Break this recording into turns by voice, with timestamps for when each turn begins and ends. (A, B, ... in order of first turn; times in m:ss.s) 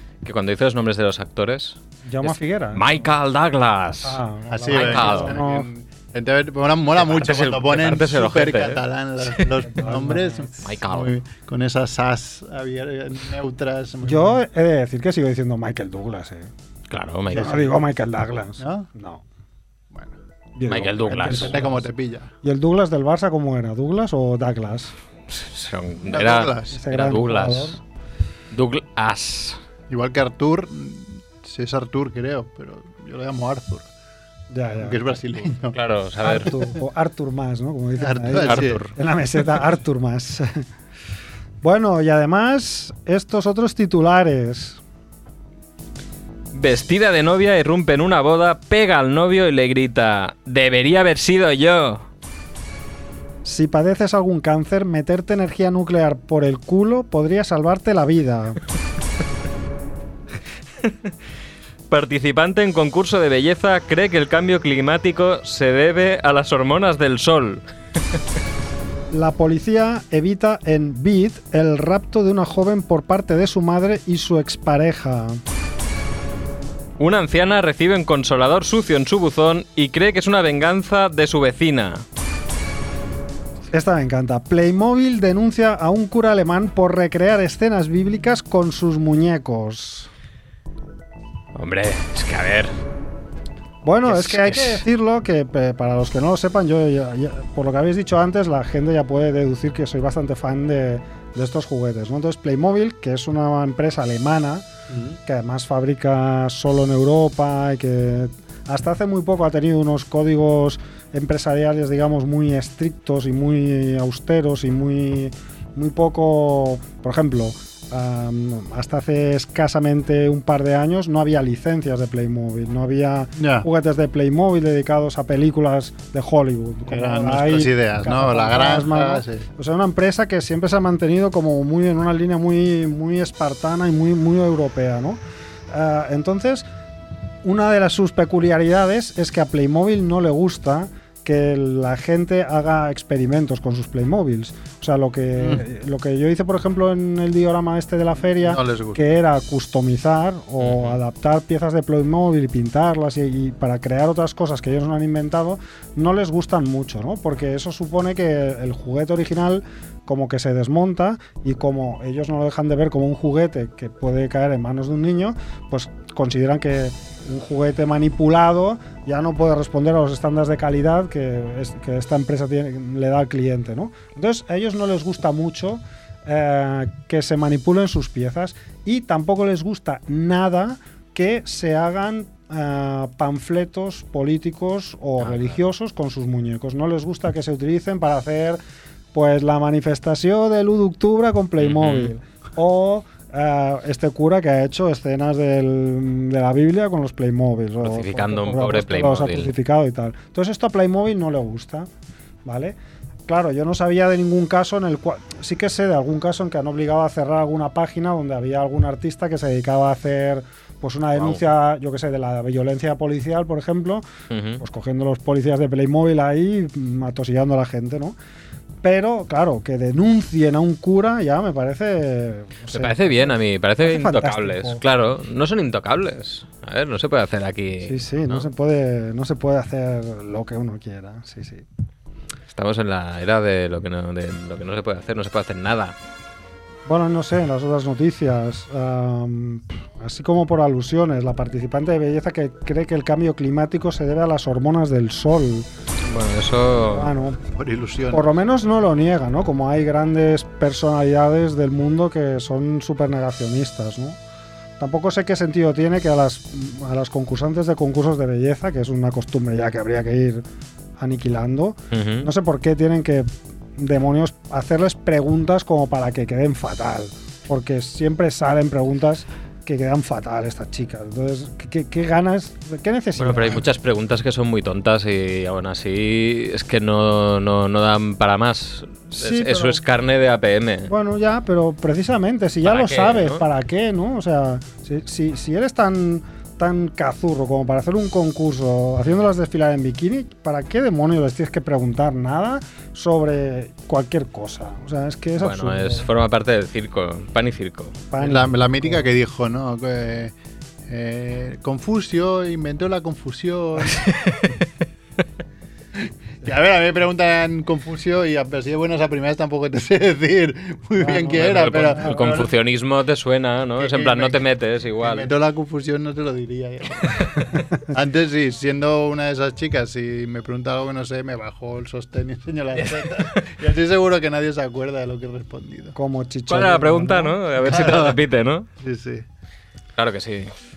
0:00.2-0:05.4 A
0:02.1-0:02.9 B
0:04.0-0:05.7 B
0:04.5-0:14.4 C
0:07.0-0:09.5 A
0:09.7-0:10.5 B
0:10.6-0:11.1 A
0:14.0-0:16.5 B
0:16.9-0:17.7 A
0:17.3-0:17.6 C
0:17.3-0:19.2 B
0:18.6-0:18.9 C
0:19.9-0:20.2 C
0:20.6-0:21.8 B
0:20.7-0:21.6 A
0:21.2-0:22.3 C
0:22.4-0:24.9 B
0:25.3-0:27.8 A
0:26.0-0:26.8 C
0:26.7-0:27.8 B
0:28.5-0:29.6 A
0:29.9-0:33.9 C
0:34.5-0:35.0 B
0:34.8-0:35.8 C
0:35.7-0:36.5 A
0:36.2-0:40.6 B
0:38.0-0:38.8 C
0:38.4-0:38.9 A
0:41.6-0:44.8 B
0:46.5-0:52.0 A
0:53.4-0:58.6 B
1:00.8-1:01.1 A
1:01.9-1:07.6 A
1:09.1-1:15.4 B
1:17.0-1:22.0 A
1:23.7-1:30.1 B
1:31.5-1:32.7 A
1:33.8-1:44.7 B
1:34.0-1:34.8 A
1:45.2-2:15.2 B
2:03.4-2:03.7 C
2:06.9-2:09.4 C
2:15.7-2:16.6 B
2:17.4-3:08.6 B
2:25.4-2:25.6 C
2:28.4-2:29.0 C
2:30.6-2:31.0 A
3:05.2-3:05.5 A
3:09.1-3:21.9 B
3:11.6-3:12.1 A
3:17.8-3:19.5 A
3:22.4-3:22.8 B
3:23.3-3:34.0 B
3:31.2-3:31.4 A
3:34.3-3:34.6 A
3:34.6-3:38.2 B
3:38.8-3:44.8 B
3:42.7-3:48.5 A
3:47.8-3:51.6 B
3:52.5-3:56.0 A
3:56.9-4:05.7 B
4:06.0-4:07.1 A
4:06.8-4:07.4 B
4:07.4-4:08.4 C
4:08.1-4:14.2 B
4:14.8-4:20.4 B
4:21.0-4:33.6 B
4:21.9-4:22.3 A
4:33.2-4:40.9 A
4:39.1-4:39.8 B
4:40.9-4:56.0 B
4:42.6-4:43.4 A
4:55.4-4:58.0 A
4:58.1-4:59.1 B
4:58.2-5:00.3 C
5:00.9-5:04.1 C
5:04.0-5:04.6 A
5:06.0-5:12.5 C
5:11.0-5:12.1 B
5:11.3-5:15.3 A
5:13.8-5:14.4 C
5:15.0-5:17.3 C
5:17.9-5:26.0 C
5:22.9-5:23.5 A
5:25.9-5:27.4 B
5:26.5-5:28.7 A
5:27.6-5:28.2 C
5:28.8-5:29.2 C
5:30.0-5:30.5 A